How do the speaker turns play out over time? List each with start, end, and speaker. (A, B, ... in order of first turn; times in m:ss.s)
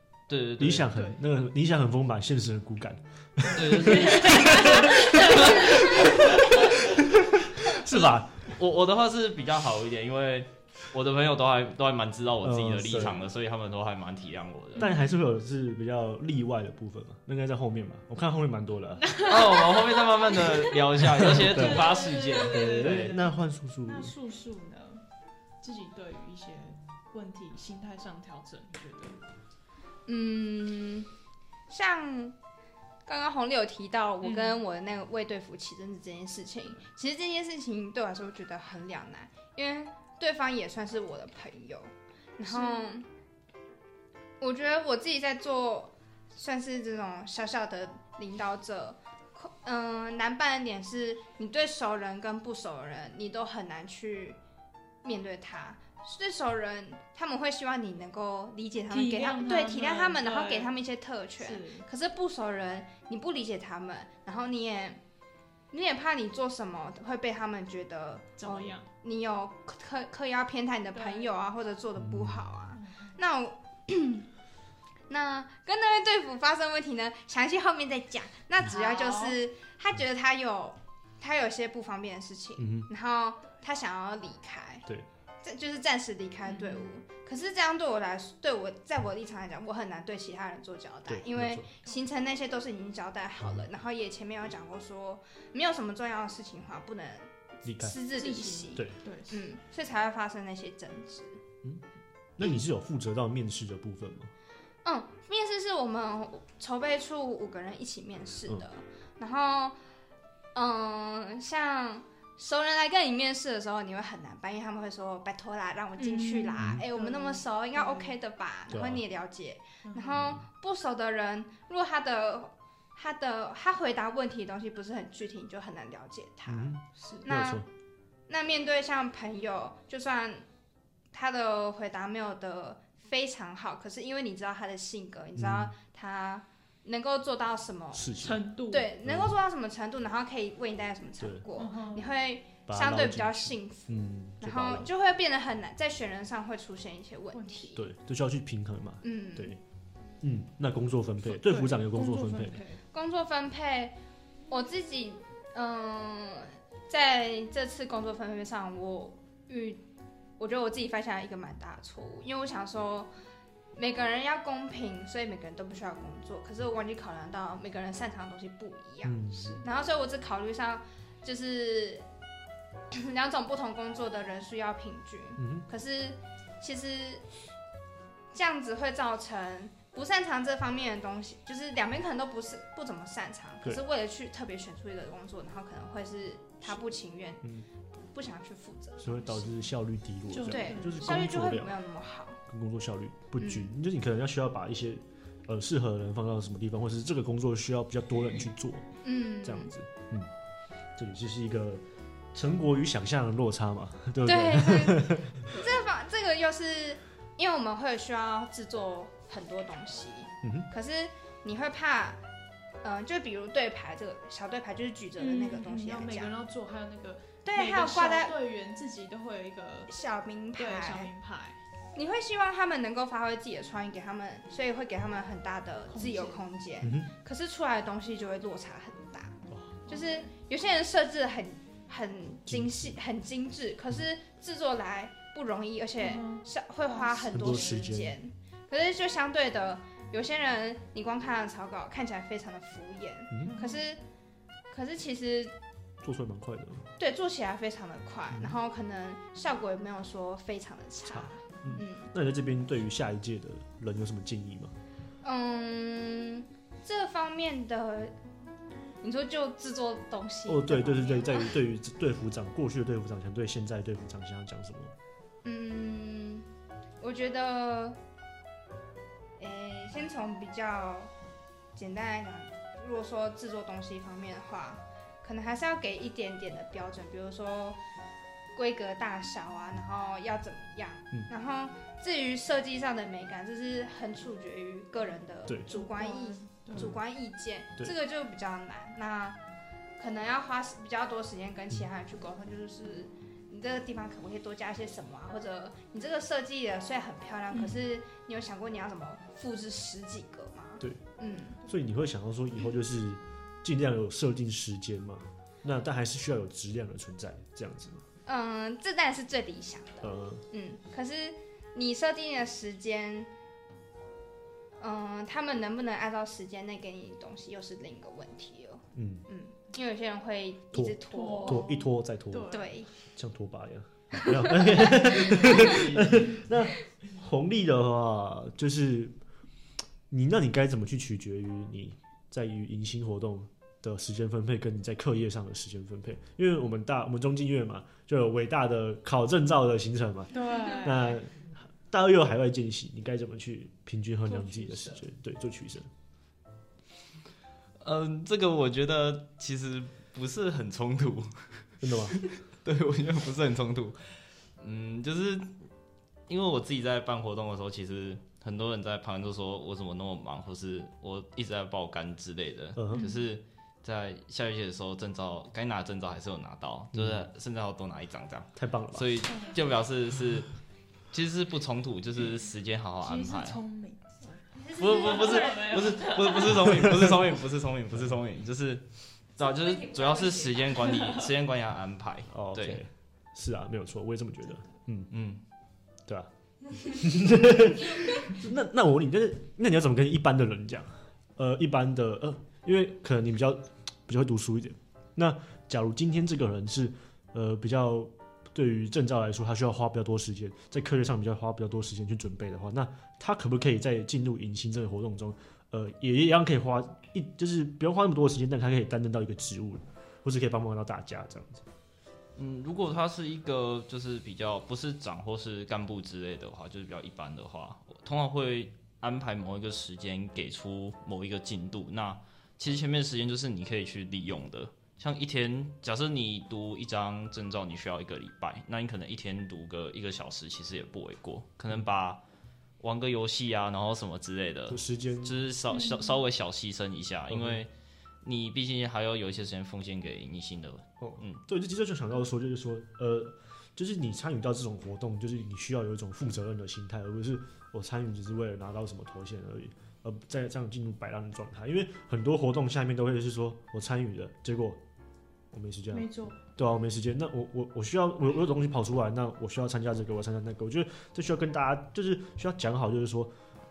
0:00.3-0:00.9 A
0:00.6-0:08.5 B
0:03.5-0:06.6 A
0:04.0-0:06.7 C
0:08.0-0:14.9 A
0:12.4-0:13.3 B
0:14.8-0:15.1 C
0:14.8-0:19.1 B
0:19.0-0:25.0 C
0:19.2-0:23.2 A
0:21.2-0:24.1 B
0:25.6-0:29.2 C
0:30.1-0:31.1 D
0:31.7-0:32.4 D
0:33.0-0:43.0 D
0:34.2-0:34.6 C
0:42.5-0:42.8 C
0:44.4-0:54.4 D
0:55.0-1:05.0 D
0:58.9-1:00.7 C
1:01.4-1:01.9 C
1:05.7-1:14.3 D
1:08.4-1:08.8 C
1:10.9-1:11.3 C
1:12.0-1:12.5 B
1:12.7-1:13.2 C
1:15.1-1:24.8 D
1:18.6-1:19.4 C
1:22.6-1:22.9 B
1:25.4-1:41.4 D
1:26.4-1:26.9 C
1:31.1-1:31.7 B
1:37.6-1:38.0 B
1:38.1-1:39.4 C
1:42.4-1:44.3 B
1:44.8-1:49.8 D
1:50.5-2:07.6 D
1:56.0-1:58.1 C
1:58.7-1:59.0 B
1:59.8-2:00.2 C
2:00.1-2:00.4 B
2:06.5-2:07.7 B
2:07.0-2:07.3 C
2:08.3-2:10.4 D
2:11.1-2:18.1 D
2:15.4-2:15.7 B
2:17.9-2:18.4 B
2:18.2-2:18.9 C
2:18.7-2:27.8 D
2:19.0-2:19.3 B
2:21.2-2:21.4 B
2:21.6-2:22.1 C
2:22.7-2:24.9 B
2:27.3-2:27.8 C
2:27.8-2:29.6 B
2:29.0-2:29.6 D
2:30.2-2:32.6 B
2:31.2-2:32.8 C
2:32.9-2:34.0 D
2:34.5-2:39.8 D
2:40.4-2:43.1 D
2:43.7-2:52.0 D
2:49.0-2:49.6 B
2:52.9-2:57.2 D
2:55.4-2:55.6 B
2:58.3-3:07.4 D
3:08.0-3:09.5 D
3:09.0-3:11.7 B
3:10.3-3:11.2 C
3:10.4-3:12.4 D
3:12.5-3:18.9 B
3:13.4-3:13.7 D
3:19.0-3:19.7 D
3:19.4-3:20.3 B
3:21.0-3:21.8 B
3:22.3-3:25.5 B
3:24.2-3:32.2 D
3:30.4-3:30.7 B
3:32.8-3:36.3 D
3:35.2-3:39.9 C
3:37.4-3:38.3 D
3:39.9-3:41.1 D
3:40.6-3:41.6 C
3:42.0-4:04.0 D
3:45.9-3:46.4 C
3:46.8-3:47.1 B
3:49.5-3:49.8 B
3:49.9-3:50.3 C
3:52.5-3:53.0 B
3:56.0-3:57.9 C
3:57.3-3:58.2 B
4:03.3-4:03.6 B
4:03.4-4:03.8 C
4:04.7-4:05.5 D
4:06.0-4:06.9 B
4:07.0-4:12.1 D
4:11.1-4:14.7 B
4:15.2-4:18.1 D
4:19.0-4:21.5 D
4:20.5-4:24.9 B
4:25.4-4:26.5 D
4:27.0-4:28.0 D
4:29.4-4:31.1 D
4:31.7-4:37.8 D
4:38.5-4:49.4 D
4:45.7-4:46.9 C
4:50.0-5:01.6 D
4:57.5-4:57.8 C
5:01.6-5:08.0 B
5:08.2-5:13.3 D
5:10.0-5:10.4 B
5:14.8-5:21.7 D
5:18.9-5:19.2 B
5:20.7-5:29.1 B
5:21.1-5:22.7 C
5:22.5-5:22.9 D
5:25.2-5:26.3 A
5:30.1-5:45.9 B
5:40.3-5:41.2 C
5:44.3-5:45.0 C
5:47.8-5:55.6 A
5:51.8-5:52.2 B
5:56.3-6:10.5 A
6:02.7-6:03.1 B
6:06.9-6:07.2 B
6:08.6-6:09.2 B
6:09.3-6:09.6 C
6:11.1-6:13.6 A
6:13.0-6:16.6 C
6:14.6-6:15.9 D
6:14.7-6:22.8 A
6:16.5-6:17.2 B
6:20.8-6:21.3 C
6:22.3-6:25.1 B
6:25.1-6:25.4 A
6:26.1-6:51.6 B
6:52.4-7:12.2 A
7:12.8-7:17.7 A
7:14.7-7:15.4 B
7:15.7-7:16.1 C
7:17.3-7:17.6 B
7:18.2-7:21.4 A
7:21.0-7:34.8 B
7:35.5-7:43.3 B
7:35.9-7:36.4 C